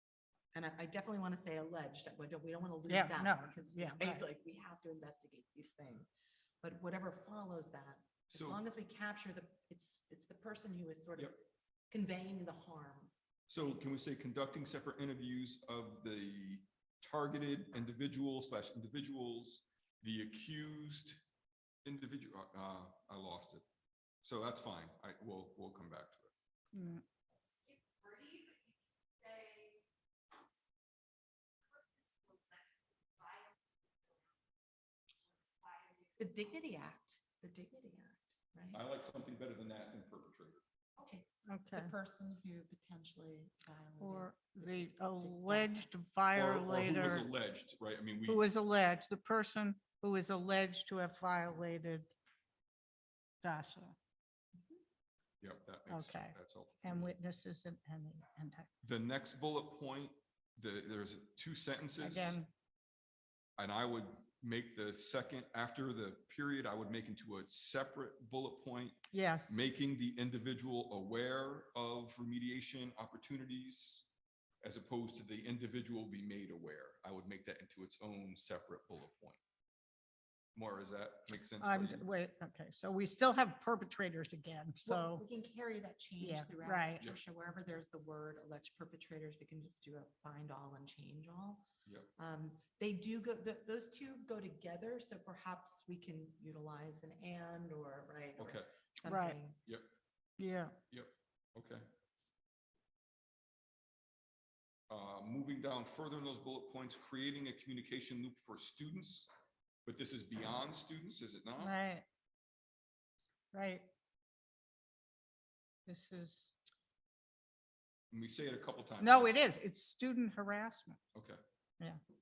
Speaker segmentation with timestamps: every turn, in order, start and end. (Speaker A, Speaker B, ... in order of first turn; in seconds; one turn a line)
Speaker A: 0.5-6.1
Speaker B: 2.9-4.2
Speaker A: 6.6-13.1
Speaker C: 8.3-8.6
Speaker C: 13.5-21.2
Speaker C: 21.9-23.6
Speaker C: 24.2-26.3
Speaker B: 26.7-27.0
Speaker D: 27.7-29.8
Speaker D: 31.8-34.2
Speaker D: 35.5-36.2
Speaker A: 36.2-38.8
Speaker C: 38.7-40.6
Speaker A: 41.0-45.9
Speaker B: 41.5-41.9
Speaker B: 44.0-47.3
Speaker C: 46.3-48.5
Speaker B: 48.3-52.1
Speaker B: 53.4-54.0
Speaker C: 55.4-57.1
Speaker B: 55.9-58.7
Speaker C: 58.8-62.4
Speaker B: 62.0-62.5
Speaker C: 63.6-74.1
Speaker B: 69.1-69.6
Speaker C: 74.6-79.4
Speaker C: 80.5-82.0
Speaker B: 81.6-85.2
Speaker A: 84.8-91.7
Speaker B: 86.2-87.0
Speaker A: 92.2-99.6
Speaker C: 98.4-98.7
Speaker B: 99.1-99.4
Speaker B: 100.4-100.8
Speaker C: 100.9-101.8
Speaker C: 104.9-109.3
Speaker C: 109.8-111.8
Speaker B: 111.6-112.0
Speaker B: 113.5-113.9
Speaker B: 115.9-116.5
Speaker C: 118.1-119.4
Speaker B: 119.0-121.0
Speaker C: 121.1-121.4